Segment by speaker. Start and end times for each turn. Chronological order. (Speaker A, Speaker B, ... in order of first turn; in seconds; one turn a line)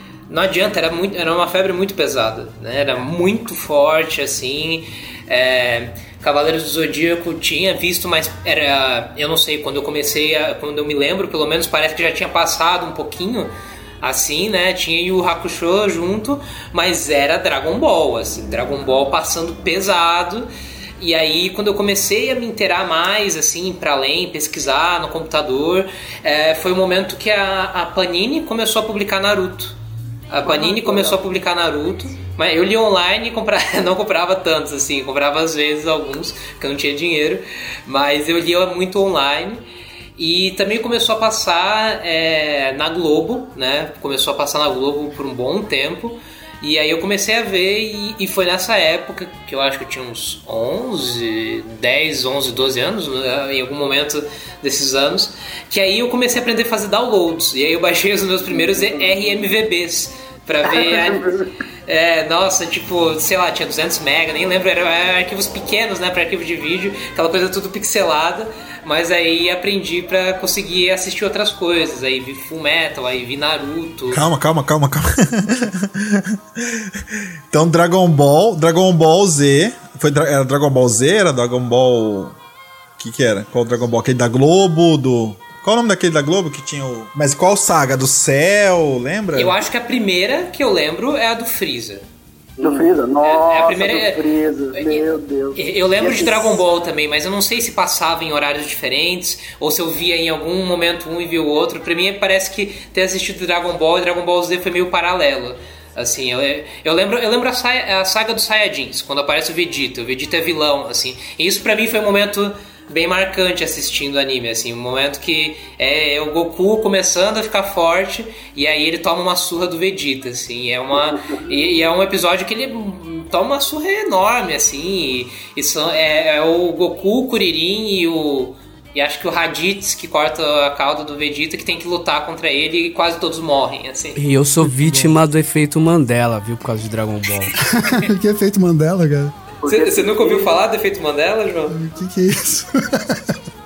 Speaker A: 0.3-29.8
Speaker A: 30.3-39.6
Speaker B: 30.6-31.1
Speaker A: 40.2-74.2
Speaker B: 60.7-61.4
Speaker C: 74.1-82.4
Speaker C: 83.0-89.6
Speaker A: 89.3-92.0
Speaker B: 92.6-96.5
Speaker D: 92.6-92.8
Speaker A: 93.2-134.2
Speaker D: 134.2-137.5
Speaker E: 134.8-135.1
Speaker E: 137.5-139.3
Speaker B: 139.6-140.5
Speaker A: 139.6-141.8
Speaker E: 141.7-143.4